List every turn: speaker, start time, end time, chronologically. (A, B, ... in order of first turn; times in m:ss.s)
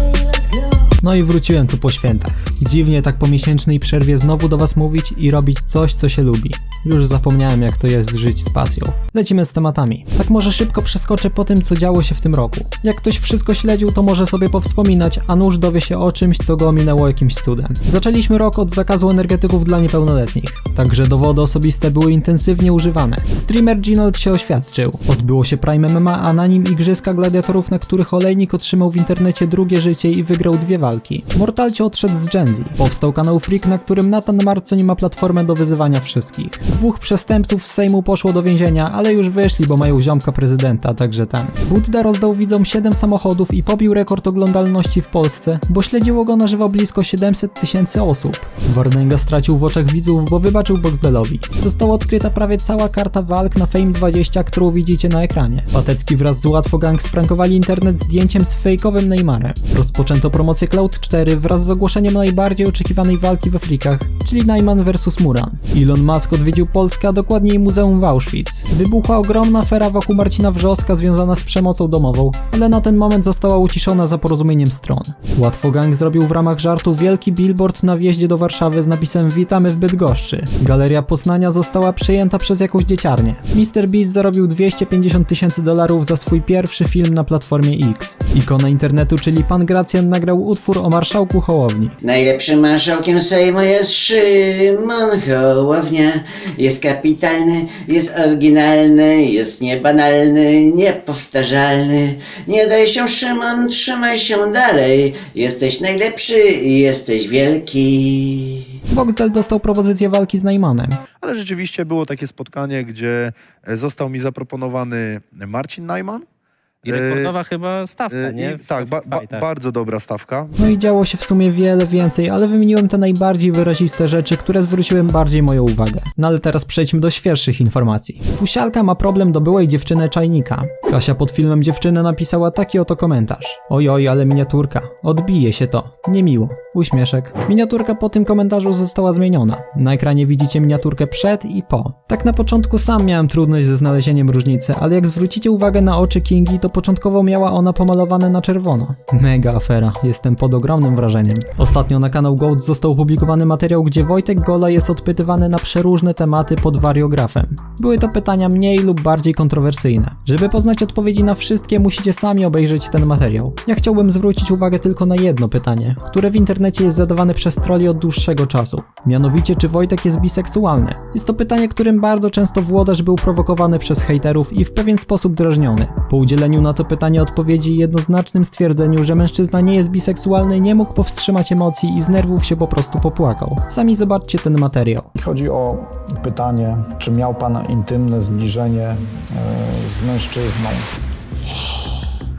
0:01.0-1:32.0 A
1:32.0-1:48.7 B
1:48.9-1:51.0 A
1:51.2-1:56.2 C
1:56.8-1:57.4 C
1:56.8-1:59.5 D
1:58.1-2:00.5 C
2:00.6-3:05.1 A
3:05.1-3:10.8 E